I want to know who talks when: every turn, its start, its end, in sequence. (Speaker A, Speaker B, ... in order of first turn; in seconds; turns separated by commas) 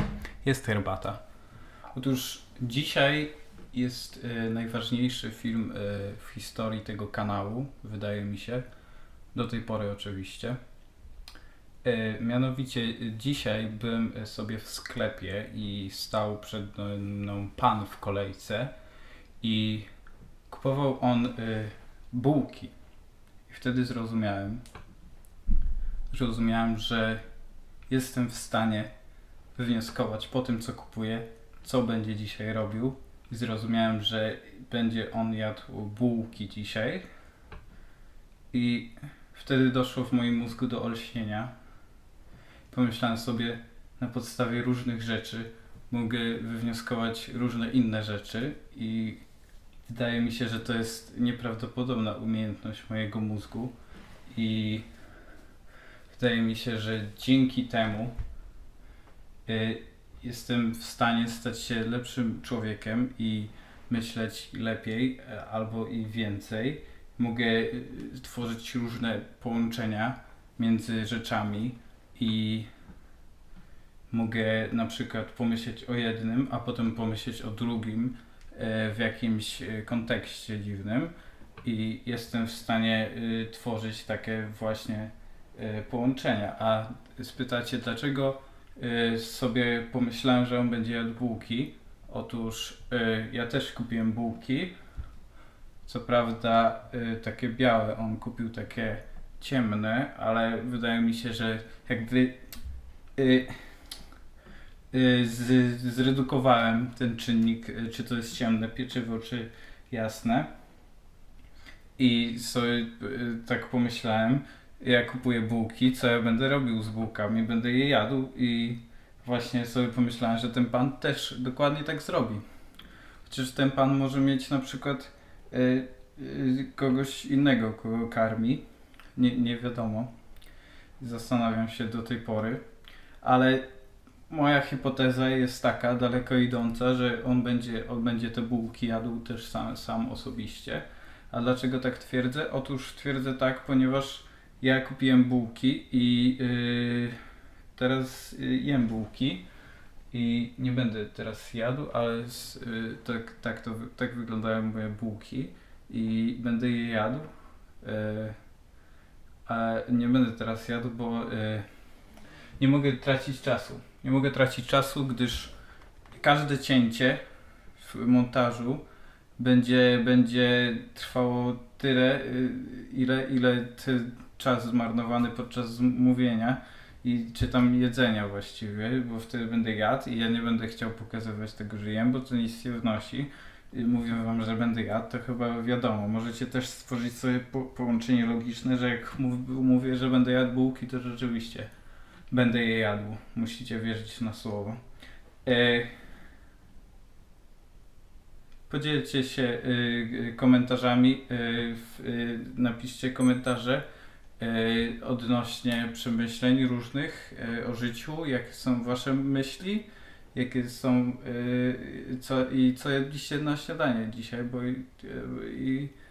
Speaker A: 0.4-1.2, Speaker A: 1.9-8.6, Speaker A: 9.3-10.6, Speaker A: 11.8-18.7, Speaker A: 19.4-19.9, Speaker A: 20.5-22.7, Speaker A: 23.5-24.6, Speaker A: 26.1-27.2, Speaker A: 27.9-28.9, Speaker A: 29.6-37.0, Speaker A: 38.5-41.5, Speaker A: 42.7-49.2, Speaker A: 49.9-53.7, Speaker A: 54.3-54.9, Speaker A: 56.1-58.1, Speaker A: 59.5-72.7, Speaker A: 74.1-94.7, Speaker A: 95.9-102.4, Speaker A: 103.2-103.5, Speaker A: 104.9-110.5, Speaker A: 112.0-122.4, Speaker A: 123.2-128.6, Speaker A: 129.2-130.1, Speaker A: 131.0-132.6, Speaker A: 133.2-133.7, Speaker A: 134.3-147.2, Speaker A: 147.8-149.5, Speaker A: 150.1-157.3, Speaker A: 157.8-158.4, Speaker A: 159.5-161.7, Speaker A: 162.6-165.5, Speaker A: 166.2-167.2, Speaker A: 167.8-168.8, Speaker A: 169.4-191.7, Speaker A: 192.3-194.8, Speaker A: 195.4-195.9, Speaker A: 198.7-203.8, Speaker A: 204.4-215.9